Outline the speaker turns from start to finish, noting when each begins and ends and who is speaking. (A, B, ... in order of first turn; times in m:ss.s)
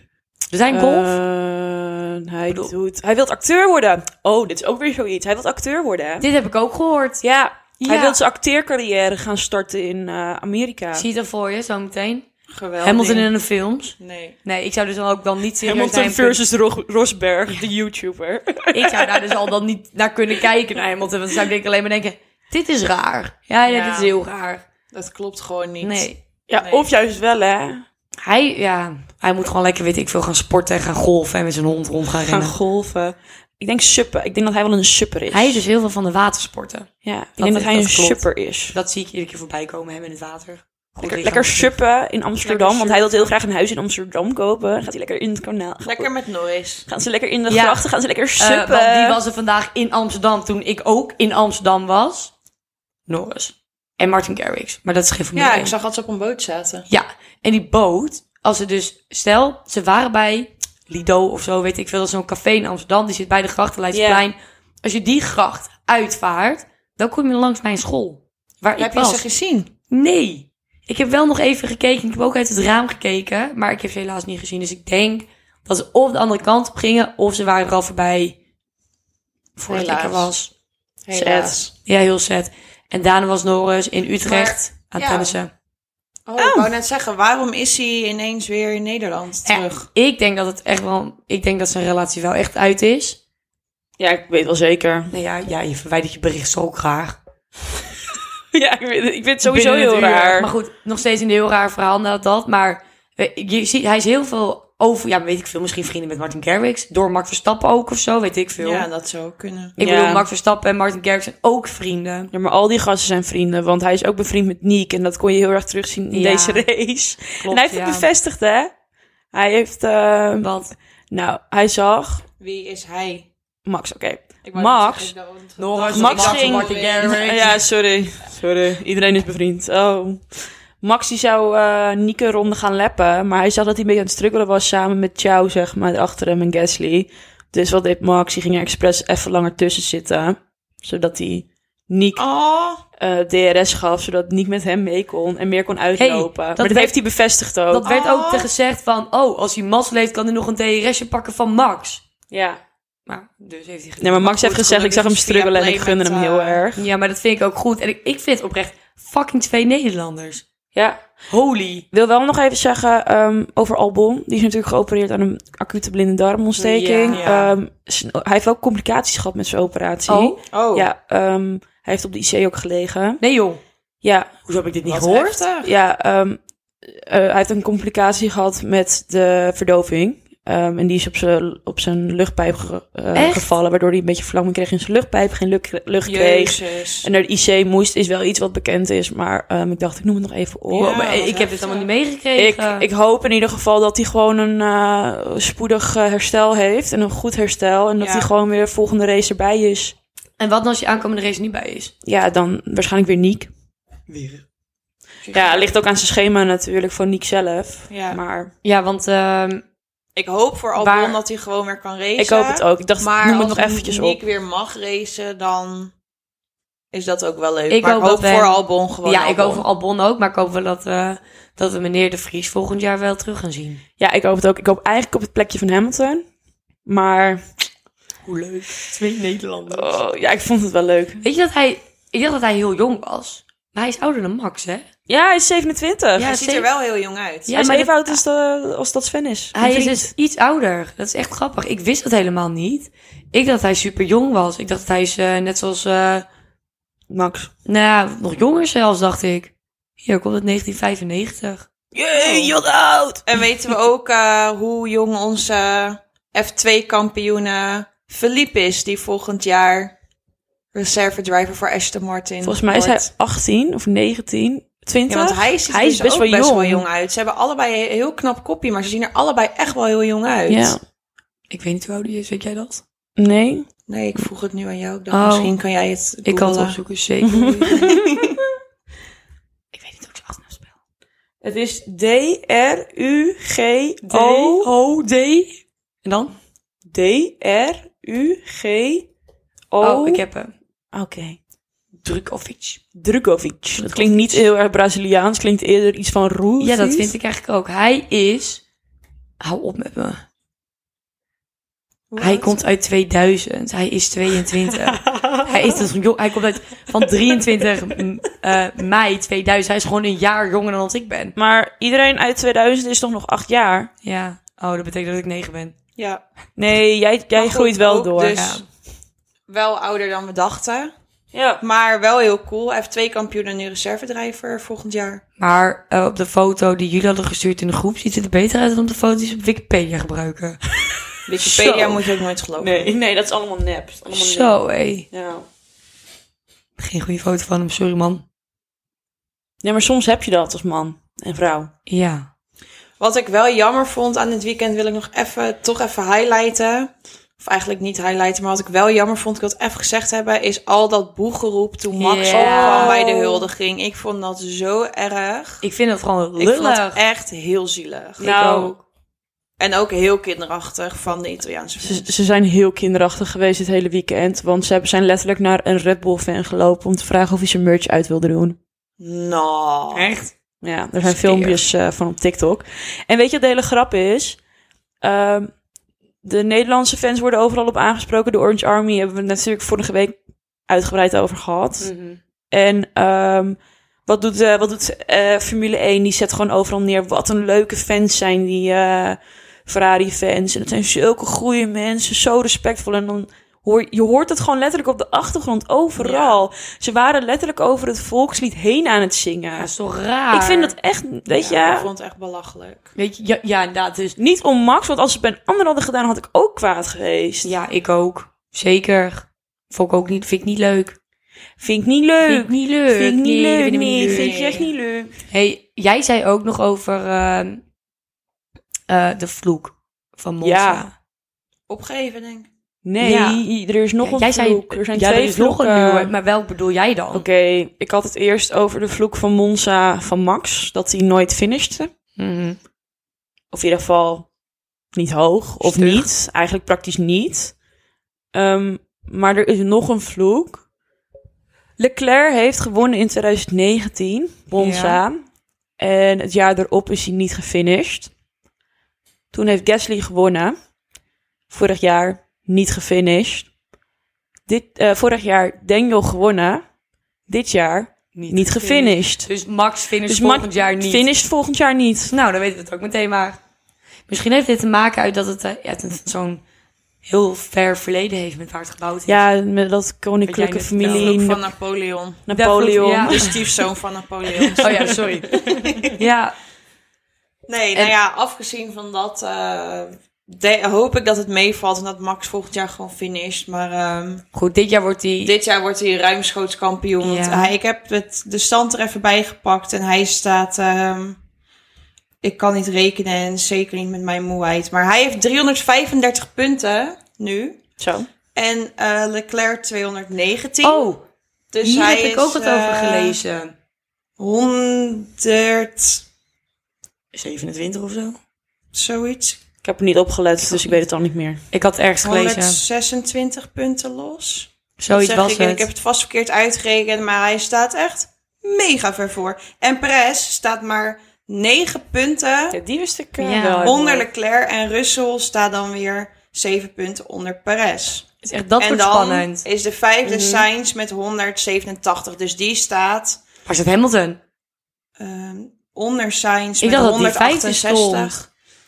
0:00.5-0:01.2 A
0:00.7-0:06.3 B
0:06.2-0:07.2 A
0:07.2-0:11.1 B
0:07.8-0:08.2 A
0:10.9-0:12.3 A
0:12.5-0:13.3 C
0:12.8-0:16.4 A
0:14.0-0:14.4 C
0:15.6-0:19.4 B
0:18.7-0:24.6 A
0:23.7-0:24.1 C
0:24.9-0:26.9 C
0:25.8-0:26.2 A
0:26.5-0:27.9 B
0:28.2-0:32.6 A
0:32.3-0:35.7 B
0:35.3-0:41.8 A
0:37.0-0:38.8 B
0:41.0-0:46.1 B
0:42.4-0:43.3 C
0:45.8-0:46.9 C
0:46.9-0:49.2 B
0:47.5-0:47.8 A
0:48.4-0:52.3 A
0:53.1-0:55.7 A
0:55.4-0:56.9 C
0:56.9-1:09.2 A
1:03.9-1:04.2 B
1:08.8-1:09.7 C
1:09.9-1:18.4 A
1:19.6-1:20.5 A
1:19.7-1:20.3 C
1:21.0-1:21.7 C
1:21.1-1:21.6 B
1:21.2-1:25.5 A
1:24.2-1:25.4 C
1:26.3-1:29.9 C
1:26.4-1:26.7 B
1:29.5-1:33.2 A
1:34.0-1:35.1 B
1:35.1-1:37.2 A
1:38.5-1:40.5 B
1:39.4-1:48.9 A
1:48.6-1:49.8 C
1:49.8-1:52.3 A
1:49.8-1:50.3 B
1:52.3-1:58.7 B
1:56.1-1:56.7 A
1:57.4-1:58.1 A
1:59.3-2:00.5 B
2:00.4-2:00.7 A
2:01.1-2:02.2 B
2:02.4-2:03.3 C
2:03.6-2:05.1 B
2:04.4-2:07.3 C
2:05.6-2:07.6 A
2:05.9-2:22.2 B
2:22.2-2:22.8 C
2:23.0-2:27.8 B
2:26.0-2:27.0 A
2:27.7-2:32.0 A
2:27.9-2:28.5 C
2:32.3-2:32.6 B
2:33.1-2:34.5 A
2:34.0-2:36.9 B
2:34.4-2:36.6 C
2:36.8-2:40.4 A
2:40.7-2:41.0 B
2:41.3-2:41.8 A
2:41.9-2:53.2 B
2:46.6-2:47.5 A
2:47.1-2:47.5 C
2:50.1-2:50.4 A
2:50.5-2:50.9 C
2:53.2-2:53.6 A
2:54.0-2:54.3 B
2:54.5-2:55.4 A
2:54.8-2:55.7 C
2:55.6-3:11.2 B
3:03.1-3:03.5 A
3:06.0-3:07.1 C
3:10.7-3:11.9 C
3:10.8-3:12.8 A
3:12.4-3:20.0 B
3:18.0-3:18.3 C
3:20.4-3:21.9 A
3:22.0-3:23.5 B
3:24.1-3:24.4 A
3:25.2-3:25.7 C
3:25.3-3:28.5 B
3:27.9-3:28.2 C
3:28.6-3:29.6 A
3:30.2-3:35.9 C
3:30.8-3:31.2 A
3:32.2-3:34.2 B
3:36.9-3:39.6 C
3:37.7-3:43.8 A
3:44.0-3:46.3 B
3:46.8-3:47.5 B
3:48.2-3:49.9 A
3:49.7-3:51.2 B
3:51.2-3:54.9 A
3:55.1-3:56.3 B
3:56.2-3:56.7 A
3:56.2-3:57.6 C
3:57.5-3:58.2 A
3:57.5-4:00.1 B
3:59.5-4:06.3 A
4:07.1-4:07.5 B
4:07.7-4:11.7 A
4:11.9-4:13.7 B
4:12.2-4:12.5 C
4:13.3-4:19.9 C
4:20.7-4:23.0 C
4:22.4-4:26.8 B
4:25.1-4:30.8 C
4:30.5-4:30.8 B
4:31.5-4:32.8 A
4:33.2-4:33.7 B
4:33.9-4:36.8 C
4:35.1-4:35.5 A
4:36.2-4:38.0 A
4:37.2-4:38.3 B
4:37.7-4:38.4 C
4:39.7-4:40.7 A
4:41.4-4:44.7 B
4:44.0-4:46.4 A
4:46.9-4:49.1 B
4:49.7-4:50.2 B
4:49.8-4:50.5 A
4:50.9-4:51.4 B
4:52.0-4:52.8 A
4:52.9-4:57.1 B
4:53.8-4:54.4 A
4:56.6-4:58.6 A
4:59.4-5:00.2 A
5:02.1-5:02.6 C
5:02.2-5:11.4 A
5:11.4-5:13.9 B
5:14.0-5:15.8 A
5:16.0-5:16.2 C
5:16.6-5:18.4 B
5:17.4-5:18.6 C
5:18.3-5:18.6 A
5:19.5-5:20.9 C
5:21.3-5:21.6 B
5:21.6-5:25.2 C
5:25.4-5:30.6 A
5:31.3-5:32.9 C
5:31.4-5:32.0 A
5:32.6-5:34.6 B
5:34.1-5:35.1 A
5:35.1-5:35.5 B
5:36.8-5:38.2 A
5:39.6-5:41.7 B
5:41.9-5:42.3 A
5:43.0-5:55.6 C
5:52.0-5:53.0 A
5:52.3-5:53.5 B
5:55.6-5:57.0 A
5:56.4-5:58.3 C
5:58.2-5:58.8 B
5:58.2-5:58.8 A
5:59.6-6:02.1 C
6:01.8-6:08.6 B
6:09.0-6:10.1 C
6:09.9-6:10.3 A
6:10.6-6:14.4 B
6:11.1-6:11.5 A
6:15.0-6:15.5 B
6:16.2-6:21.9 B
6:21.8-6:22.2 A
6:22.5-6:39.7 B
6:36.0-6:36.4 C
6:39.6-6:40.7 A
6:40.3-6:41.9 B
6:41.4-6:42.9 C
6:43.0-6:44.2 A
6:44.2-6:47.5 B
6:47.4-6:51.0 A
6:51.6-6:55.2 B
6:52.2-6:54.4 A
6:54.0-6:54.7 C
6:55.3-6:57.6 A
6:58.9-7:00.9 A
7:00.4-7:00.9 B
7:01.7-7:02.5 C
7:02.8-7:06.1 B
7:03.0-7:03.4 A
7:04.0-7:07.2 A
7:07.1-7:11.9 B
7:12.2-7:12.6 A
7:13.5-7:14.3 B
7:14.9-7:17.5 B
7:15.6-7:16.1 A
7:18.3-7:20.6 B
7:21.8-7:25.2 B
7:24.5-7:25.0 A
7:25.8-7:28.1 B
7:29.3-7:30.6 B
7:31.5-7:33.5 B
7:34.5-7:36.6 B
7:37.3-7:39.3 B
7:38.1-7:41.1 A
7:40.1-7:42.1 B
7:42.1-7:43.4 A
7:44.1-7:46.4 A
7:47.0-7:49.2 A
7:49.1-7:51.4 B
7:50.3-7:51.2 A
7:50.9-7:52.2 C
7:52.3-7:53.5 B
7:52.3-7:53.4 A
7:53.0-7:56.0 C
7:54.3-7:55.9 B
7:54.6-7:56.3 A
7:57.5-8:04.2 C
8:04.3-8:05.3 A
8:05.2-8:11.2 C
8:07.0-8:07.5 A
8:12.2-8:17.6 C
8:17.8-8:18.1 B
8:18.4-8:20.9 C
8:20.6-8:21.0 A
8:21.5-8:23.2 C
8:21.6-8:23.5 A
8:24.2-8:26.0 C
8:27.1-8:28.2 A
8:28.7-8:29.4 C
8:29.6-8:31.4 B
8:30.5-8:30.7 A
8:31.5-8:32.6 A
8:32.0-8:42.6 C
8:34.8-8:35.7 A
8:42.5-8:44.1 B
8:43.2-8:43.8 A
8:43.6-8:53.2 C
8:48.2-8:49.5 A
8:50.0-8:50.5 B
8:53.5-8:54.2 A
8:55.0-8:58.2 C
8:56.6-8:58.2 A